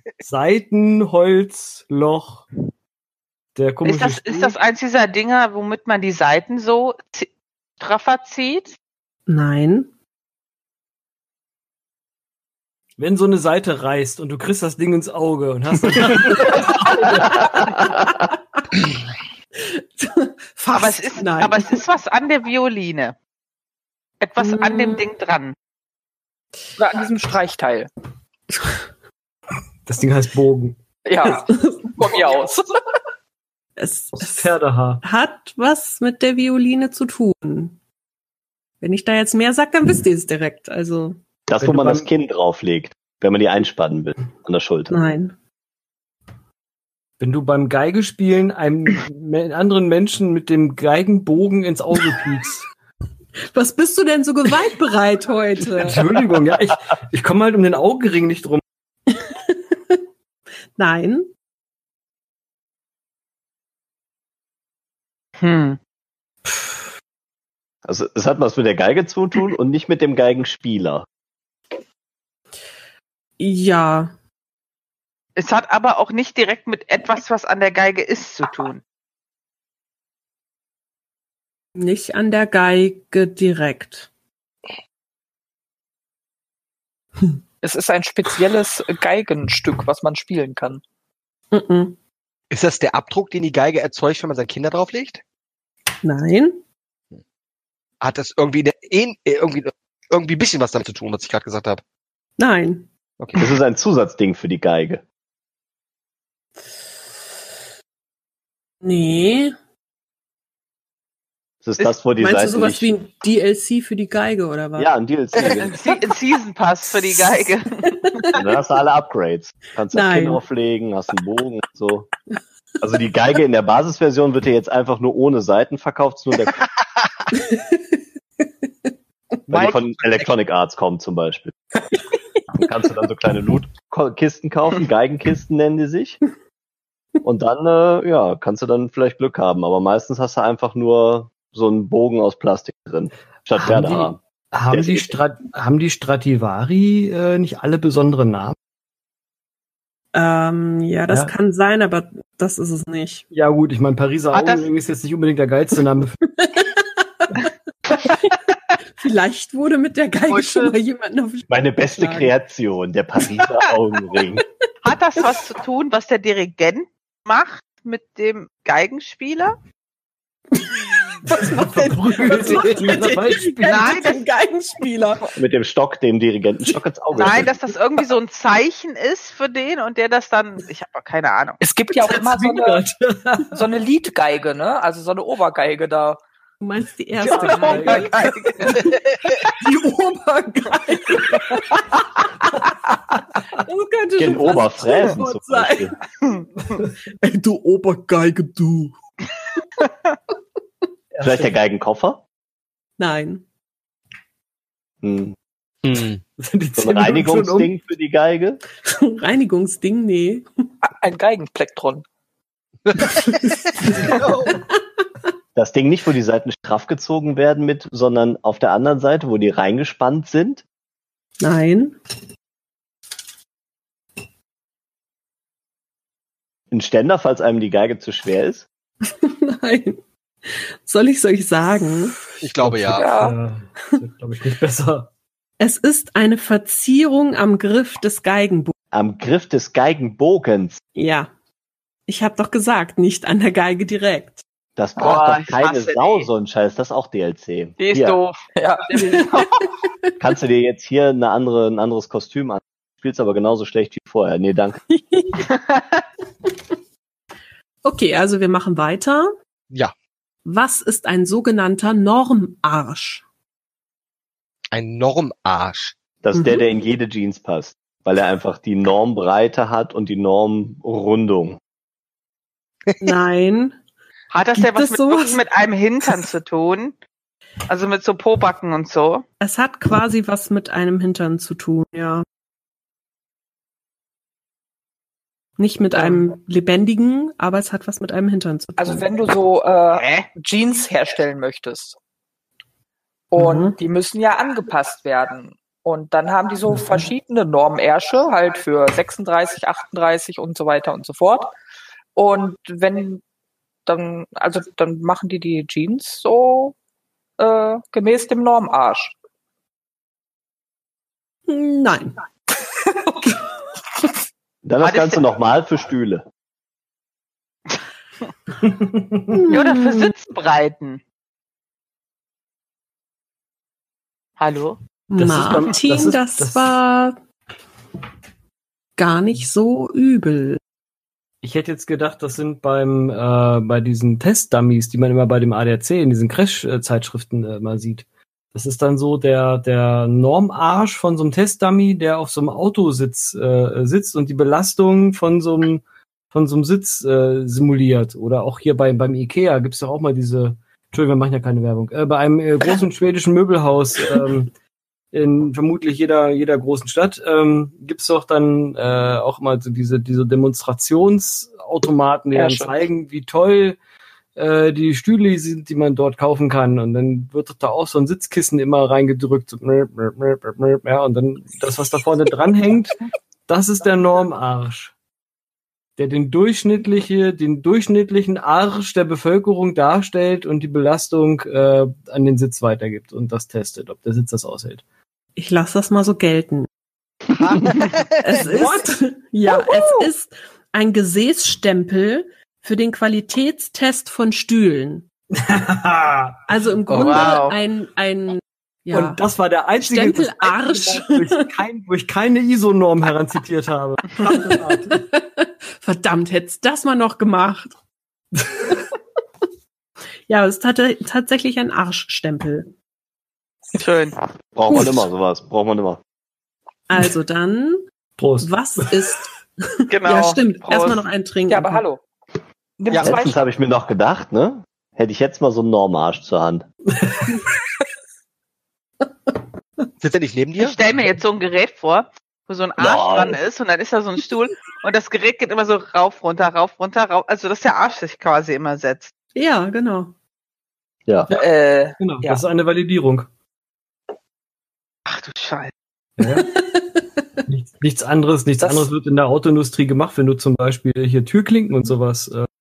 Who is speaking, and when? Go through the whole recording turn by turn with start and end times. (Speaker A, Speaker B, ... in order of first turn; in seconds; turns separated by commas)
Speaker A: 0.2-2.5, Speaker A: 3.5-4.5, Speaker B: 3.8-8.8, Speaker C: 9.3-9.9, Speaker A: 13.0-17.5, Speaker C: 19.6-21.8, Speaker B: 20.7-23.2, Speaker B: 24.2-25.6, Speaker C: 24.4-25.1, Speaker D: 26.8-27.9, Speaker A: 29.9-30.8, Speaker D: 31.1-32.8, Speaker C: 31.5-32.0, Speaker C: 33.8-37.8, Speaker A: 34.1-35.0, Speaker C: 38.8-41.2, Speaker E: 41.5-44.9, Speaker A: 41.6-42.1, Speaker C: 44.9-45.4, Speaker A: 47.2-52.7, Speaker C: 53.5-56.1, Speaker A: 55.6-58.6, Speaker C: 59.1-60.0, Speaker C: 60.8-61.3, Speaker B: 65.4-65.8, Speaker E: 67.9-71.1, Speaker C: 73.4-74.1, Speaker B: 75.4-78.8, Speaker C: 81.8-84.1, Speaker D: 87.6-90.8, Speaker C: 91.5-92.0, Speaker F: 92.5-95.2, Speaker C: 96.0-96.6, Speaker F: 98.0-101.8, Speaker C: 102.4-102.9, Speaker F: 103.2-103.5, Speaker E: 103.4-105.0, Speaker C: 108.8-109.6, Speaker E: 111.6-112.9, Speaker C: 112.2-114.9, Speaker E: 114.8-115.8, Speaker B: 115.4-117.9, Speaker C: 117.8-118.3, Speaker E: 118.3-122.1, Speaker C: 119.9-120.4, Speaker E: 122.8-126.6, Speaker C: 127.3-127.8, Speaker F: 129.5-130.3, Speaker E: 129.5-131.6, Speaker E: 132.6-136.2, Speaker E: 137.2-144.2, Speaker A: 143.6-148.6, Speaker E: 144.7-145.2, Speaker C: 150.1-153.3, Speaker A: 151.1-151.3, Speaker A: 153.3-156.2, Speaker B: 154.3-154.7, Speaker C: 156.4-158.3, Speaker C: 159.0-162.3, Speaker E: 161.5-164.4, Speaker B: 164.8-169.6, Speaker C: 170.5-175.3, Speaker A: 171.3-174.0, Speaker B: 173.7-174.2, Speaker E: 175.3-177.5, Speaker B: 177.1-181.6, Speaker D: 181.6-182.8, Speaker A: 182.0-183.6, Speaker D: 183.5-186.2, Speaker C: 186.6-189.0, Speaker A: 187.2-188.4, Speaker B: 187.3-188.8, Speaker F: 188.9-189.3, Speaker C: 189.6-191.9, Speaker C: 193.5-195.9, Speaker E: 194.2-195.9, Speaker C: 197.2-198.9, Speaker A: 201.2-201.5, Speaker E: 201.2-202.2, Speaker C: 203.0-203.4, Speaker E: 205.0-205.3, Speaker F: 205.8-206.2, Speaker A: 206.4-207.7, Speaker E: 206.8-208.6, Speaker C: 208.8-210.5, Speaker D: 210.8-212.1, Speaker F: 212.9-214.6, Speaker C: 213.2-214.6, Speaker E: 215.6-220.6, Speaker C: 221.4-222.0, Speaker E: 226.7-228.7, Speaker C: 229.1-232.2, Speaker A: 232.4-235.1, Speaker F: 232.4-233.1, Speaker D: 232.9-233.4, Speaker C: 235.6-238.7, Speaker E: 238.9-240.8, Speaker C: 241.0-241.3, Speaker C: 242.1-244.4, Speaker E: 244.8-248.2, Speaker B: 245.0-246.3, Speaker B: 247.8-249.6, Speaker D: 248.5-249.3, Speaker C: 248.9-249.4, Speaker E: 250.2-254.8, Speaker C: 254.9-255.5, Speaker B: 255.5-256.0, Speaker C: 257.8-259.3, Speaker C: 260.4-263.2, Speaker F: 264.7-265.9, Speaker E: 266.2-271.6, Speaker C: 266.4-266.6, Speaker C: 273.0-273.8, Speaker B: 274.3-277.0, Speaker C: 274.5-275.4, Speaker B: 277.7-279.2, Speaker C: 279.4-282.2, Speaker C: 285.6-289.1, Speaker D: 286.0-286.2, Speaker D: 288.8-292.0, Speaker B: 289.9-290.3, Speaker D: 293.3-301.5, Speaker C: 293.4-293.8, Speaker D: 302.1-303.2, Speaker D: 303.9-306.8, Speaker D: 307.4-309.1, Speaker C: 311.5-312.2, Speaker D: 313.0-313.4, Speaker E: 314.6-316.2, Speaker B: 314.8-315.3, Speaker A: 318.6-319.5, Speaker C: 319.3-320.1, Speaker B: 319.5-321.0, Speaker B: 324.4-324.8, Speaker C: 325.1-327.2, Speaker A: 325.2-326.8, Speaker C: 329.0-330.6, Speaker A: 331.4-354.5, Speaker A: 355.1-363.8, Speaker D: 362.3-362.7, Speaker A: 364.4-374.9, Speaker A: 376.0-384.8, Speaker C: 385.4-386.7, Speaker F: 387.4-388.5, Speaker C: 388.2-395.1, Speaker A: 388.5-388.9, Speaker A: 395.4-396.4, Speaker C: 396.5-399.2, Speaker F: 396.9-397.2, Speaker B: 396.9-397.6, Speaker A: 398.9-405.0, Speaker C: 399.8-401.5, Speaker C: 404.2-407.8, Speaker C: 410.3-412.7, Speaker B: 413.8-414.2, Speaker E: 414.6-416.0, Speaker C: 416.9-417.8, Speaker A: 418.2-419.0, Speaker C: 418.4-421.9, Speaker B: 419.9-421.0, Speaker D: 421.5-422.0, Speaker D: 422.8-423.4, Speaker F: 422.9-423.2, Speaker E: 423.0-426.7, Speaker A: 427.0-427.4, Speaker F: 430.0-430.8, Speaker B: 430.6-439.1, Speaker E: 432.8-433.4, Speaker C: 439.4-440.1, Speaker D: 441.3-442.4, Speaker A: 442.0-443.3, Speaker B: 445.1-445.7, Speaker A: 446.2-446.6, Speaker C: 446.4-447.0, Speaker A: 447.5-452.5, Speaker D: 448.6-448.9